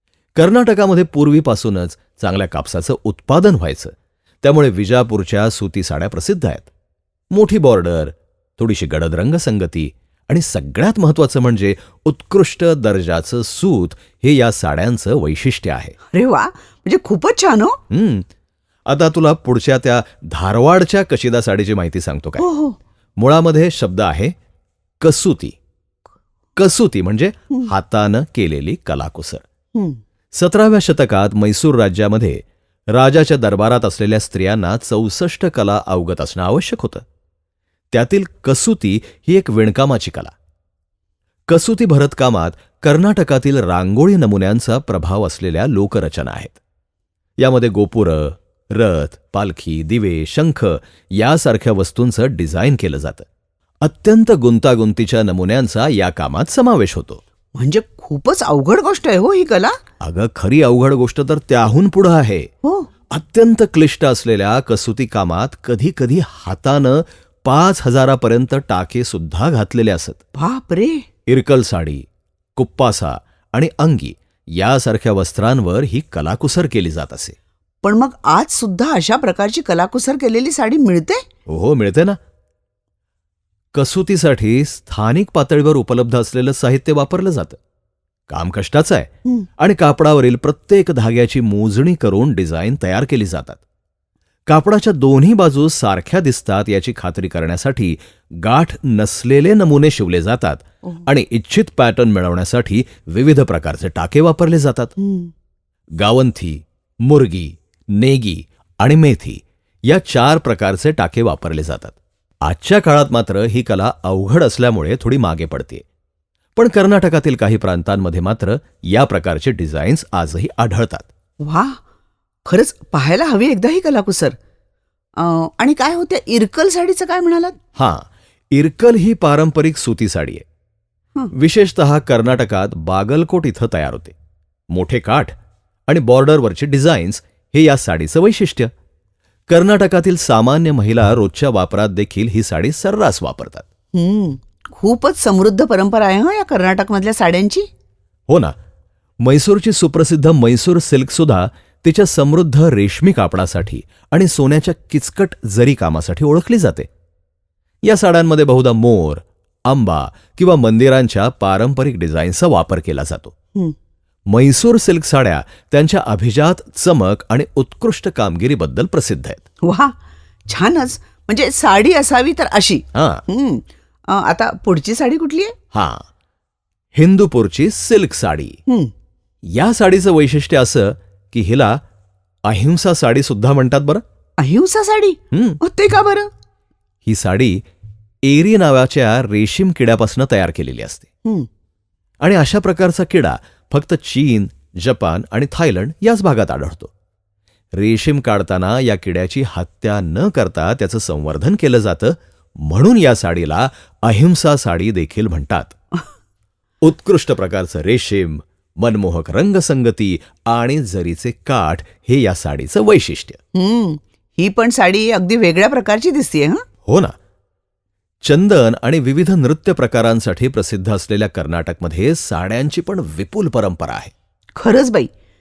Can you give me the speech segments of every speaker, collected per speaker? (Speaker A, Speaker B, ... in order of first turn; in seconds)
Speaker A: 0.3-6.7, 7.3-15.9, 17.9-18.3, 18.9-22.4, 23.2-24.3, 25.0-25.6, 26.6-29.4, 30.3-37.0, 37.9-40.3, 41.5-46.6, 47.4-53.2, 53.8-57.2, 60.0-62.5, 63.1-70.2, 71.3-72.0, 72.5-77.3, 81.5-82.2, 83.7-87.6, 88.3-93.6, 94.5-104.9, 106.0-115.8, 116.5-121.1, 127.8-130.4, 131.3-134.1, 134.7-135.3, 135.9-138.7, 139.5-143.7, 148.3-148.5, 149.2-156.9, 157.8-163.3, 164.3-169.4, 172.9-173.2, 175.7-176.1, 176.9-178.6, 179.5-181.8, 182.4-184.0, 185.3-185.6, 187.1-187.6, 188.2-191.1, 192.2-196.9, 197.8-205.7, 206.8-213.4, 216.8-217.1, 218.2-224.1
Speaker B: 16.1-17.8, 22.4-22.8, 29.7-30.0, 57.5-59.8, 62.6-62.9, 70.3-71.0, 77.8-81.2, 105.0-105.3, 121.4-121.8, 122.5-124.3, 125.2-127.6, 143.9-147.7, 169.6-169.9, 170.5-175.5, 178.7-178.9, 184.4-186.3, 213.5-216.6, 224.6-225.1